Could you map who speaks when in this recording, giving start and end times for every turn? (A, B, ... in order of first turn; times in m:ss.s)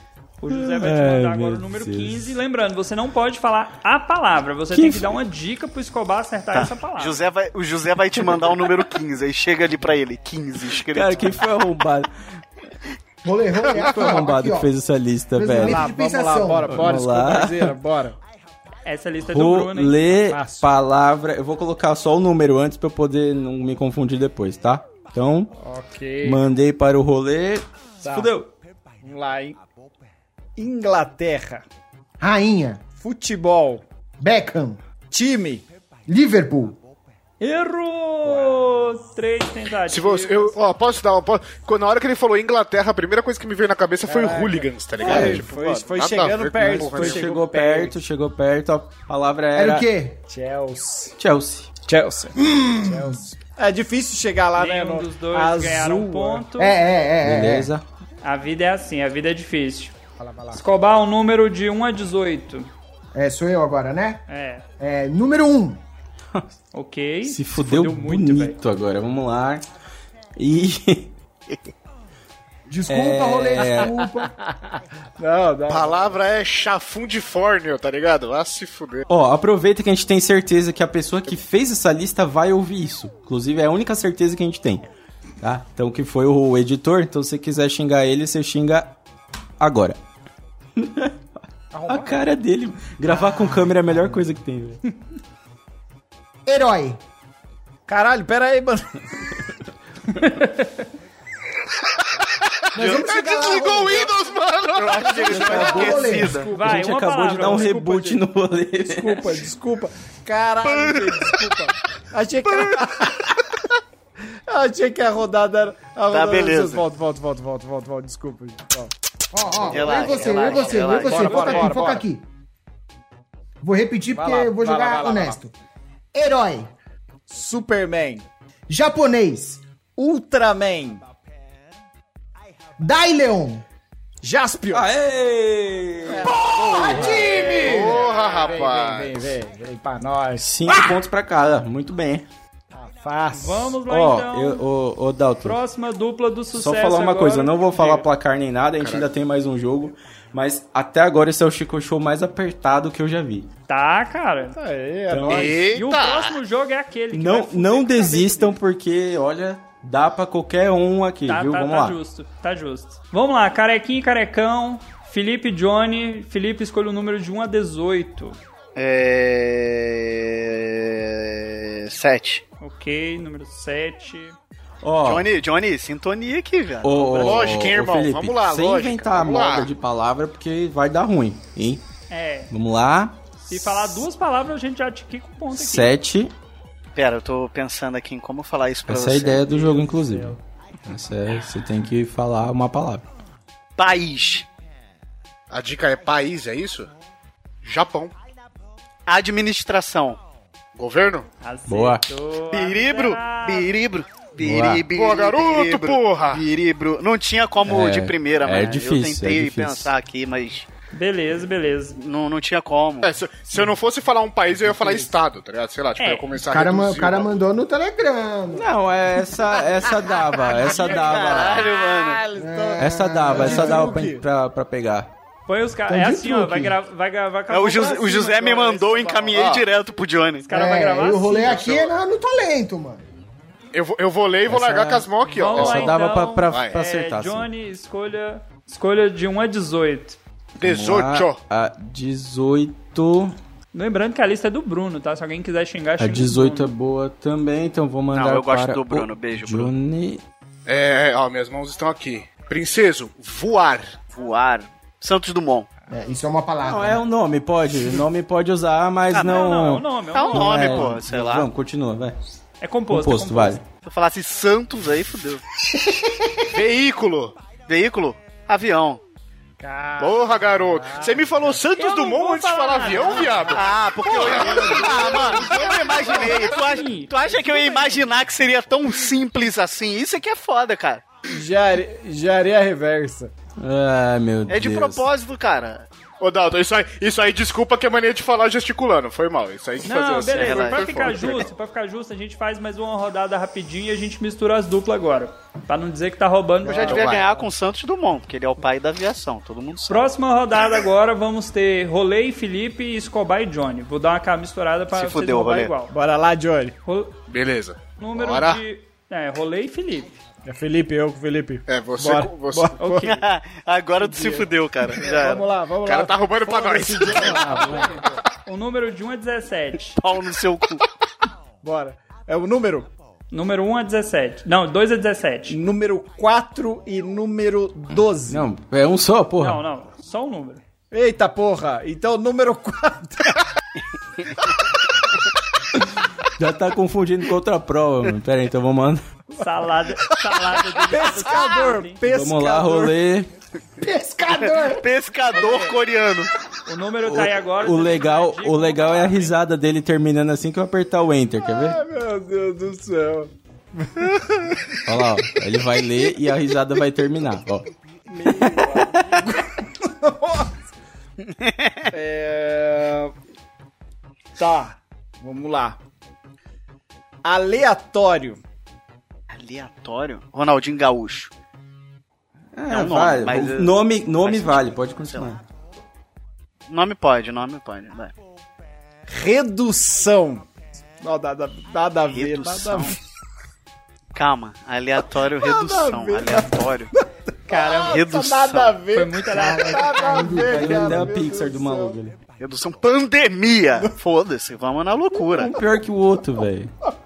0:00.4-0:07.2 A
0:00.5-0:02.4 B
0:04.7-0:05.2 B
0:06.5-0:11.4 C
0:10.9-0:12.1 B
0:13.2-0:14.7 D
0:13.6-0:14.2 E
0:13.7-0:15.9 B
0:15.3-0:16.9 D
0:15.6-0:18.2 F
0:16.7-0:17.8 B
0:18.8-0:20.2 A
0:19.2-0:25.5 B
0:20.2-0:20.7 F
0:25.6-0:26.4 F
0:26.2-0:28.5 B
0:28.0-0:28.3 F
0:29.0-0:29.6 F
0:30.6-0:31.6 F
0:32.2-0:32.8 D
0:33.0-0:33.8 F
0:34.2-0:34.8 D
0:35.1-0:35.7 F
0:36.1-0:36.8 D
0:37.4-0:40.6 A
0:38.2-0:38.6 F
0:39.9-0:47.3 E
0:44.0-0:48.0 F
0:45.0-0:45.4 B
0:46.8-0:49.9 B
0:49.5-0:50.2 D
0:50.3-0:51.2 F
0:51.2-0:51.7 B
0:51.9-0:56.5 F
0:52.4-0:53.2 D
0:54.6-0:56.8 A
0:56.6-0:57.7 D
0:57.2-0:57.8 B
0:58.2-1:00.0 A
1:00.2-1:00.6 F
1:00.5-1:02.7 A
1:03.1-1:04.2 D
1:04.3-1:04.7 A
1:04.8-1:05.8 D
1:06.7-1:08.6 A
1:07.2-1:09.6 B
1:10.4-1:11.1 B
1:12.7-1:14.3 D
1:12.9-1:13.9 B
1:13.6-1:16.1 F
1:15.7-1:19.1 E
1:19.1-1:24.9 B
1:25.4-1:29.0 B
1:29.6-1:30.0 B
1:30.8-1:31.2 B
1:31.7-1:32.3 F
1:31.9-1:34.8 B
1:33.0-1:33.8 F
1:36.5-1:37.0 D
1:37.9-1:39.0 F
1:42.7-1:45.3 E
1:42.8-1:44.1 D
1:44.8-1:46.5 C
1:45.0-1:47.6 F
1:45.3-1:49.3 B
1:45.5-1:46.4 D
1:46.5-1:48.2 A
1:48.8-1:53.4 F
1:50.7-1:51.4 E
1:54.5-1:58.9 F
1:56.1-1:56.8 C
1:59.3-2:02.2 D
1:59.6-2:02.1 F
1:59.7-2:01.8 C
2:03.6-2:05.5 D
2:04.1-2:05.4 F
2:06.1-2:06.7 D
2:07.3-2:08.3 F
2:08.7-2:09.6 D
2:10.0-2:11.0 F
2:12.8-2:13.6 D
2:14.2-2:14.9 F
2:14.7-2:17.4 B
2:16.1-2:20.9 F
2:16.7-2:17.9 D
2:17.3-2:19.2 E
2:20.4-2:22.3 B
2:22.7-2:23.8 F
2:23.3-2:24.6 A
2:23.9-2:25.6 B
2:25.4-2:28.1 A
2:26.5-2:33.5 B
2:28.8-2:29.1 E
2:33.7-2:34.6 A
2:34.5-2:35.7 F
2:35.1-2:35.6 B
2:35.3-2:36.4 E
2:35.6-2:38.6 A
2:37.1-2:42.0 B
2:41.3-2:48.4 A
2:48.8-2:52.4 C
2:52.6-2:54.4 A
2:54.8-2:55.3 B
2:55.0-2:57.5 C
2:56.8-3:01.8 B
2:57.2-2:59.7 E
3:02.1-3:02.5 A
3:02.5-3:03.9 B
3:03.4-3:05.9 A
3:05.5-3:06.3 B
3:07.0-3:09.5 C
3:08.9-3:13.0 B
3:09.5-3:10.2 A
3:13.8-3:14.5 C
3:15.5-3:16.9 E
3:17.6-3:18.1 E
3:19.1-3:20.2 C
3:20.8-3:21.3 E
3:21.4-3:23.7 A
3:21.7-3:22.0 B
3:22.5-3:30.7 C
3:24.4-3:24.8 B
3:24.9-3:26.4 E
3:27.6-3:29.9 B
3:30.9-3:32.0 A
3:32.0-3:33.1 C
3:33.0-3:37.3 E
3:34.5-3:35.1 F
3:36.0-3:36.4 A
3:36.4-3:38.7 D
3:38.5-3:41.7 B
3:40.5-3:44.2 F
3:40.8-3:42.2 C
3:42.4-3:44.0 D
3:42.8-3:45.1 B
3:45.5-3:49.4 A
3:45.9-3:46.8 D
3:47.5-3:50.5 C
3:49.3-3:49.6 E
3:50.4-3:51.6 A
3:50.5-3:53.1 D
3:51.4-3:52.0 E
3:53.7-3:56.7 E
3:54.5-3:57.5 B
3:55.3-4:00.2 A
4:00.6-4:01.4 E
4:00.6-4:03.4 B
4:03.7-4:06.7 A
4:06.0-4:10.2 B
4:08.1-4:09.7 C
4:10.7-4:14.0 E
4:14.1-4:15.7 C
4:15.9-4:17.0 D
4:16.6-4:22.2 B
4:19.1-4:20.9 A
4:20.1-4:21.5 C
4:22.6-4:23.6 A
4:22.9-4:23.6 B
4:23.8-4:25.4 C
4:26.5-4:27.3 E
4:27.7-4:29.0 C
4:29.6-4:31.6 F
4:30.0-4:35.9 E
4:31.8-4:33.6 A
4:32.9-4:33.5 F
4:33.5-4:41.0 C
4:34.2-4:35.7 F
4:35.8-4:37.9 A
4:41.3-4:43.3 F
4:43.6-4:45.0 B
4:44.5-4:45.9 C
4:46.2-4:51.4 E
4:49.8-4:57.1 A
4:50.3-4:51.4 C
4:56.6-5:00.1 C
4:56.7-4:57.3 E
4:59.9-5:06.0 A
5:04.9-5:05.7 C
5:05.9-5:06.8 F
5:06.8-5:07.2 A
5:07.3-5:08.6 E
5:08.0-5:10.2 A
5:10.5-5:13.1 F
5:11.7-5:12.8 E
5:12.8-5:13.2 A
5:13.0-5:15.5 C
5:14.0-5:18.2 F
5:15.8-5:17.8 E
5:18.5-5:20.0 A
5:20.0-5:20.8 C
5:21.6-5:22.9 F
5:23.3-5:25.6 A
5:25.5-5:28.5 F
5:28.3-5:29.6 B
5:29.4-5:30.6 A
5:30.9-5:33.4 F
5:36.4-5:39.1 B
5:39.4-5:42.0 A
5:40.9-5:43.0 F
5:42.1-5:43.3 B
5:43.8-5:44.9 D
5:44.4-5:46.3 C
5:46.7-5:49.4 A
5:47.0-5:51.8 B
5:51.5-5:54.7 F
5:54.9-5:57.7 B
5:58.1-6:00.6 F
5:58.4-5:58.8 B
6:01.4-6:01.9 C
6:01.9-6:03.1 F
6:04.4-6:05.8 F
6:07.2-6:08.4 F
6:09.3-6:11.3 C
6:12.6-6:15.4 B
6:12.7-6:15.3 C
6:16.7-6:18.1 C
6:19.1-6:20.5 F
6:21.0-6:23.0 F
6:22.1-6:23.0 C
6:24.1-6:26.9 C
6:25.4-6:32.0 F
6:27.5-6:28.0 A
6:27.8-6:28.8 C
6:28.9-6:30.1 A
6:29.3-6:31.2 D
6:30.3-6:32.2 B
6:32.4-6:35.6 C
6:35.3-6:36.7 B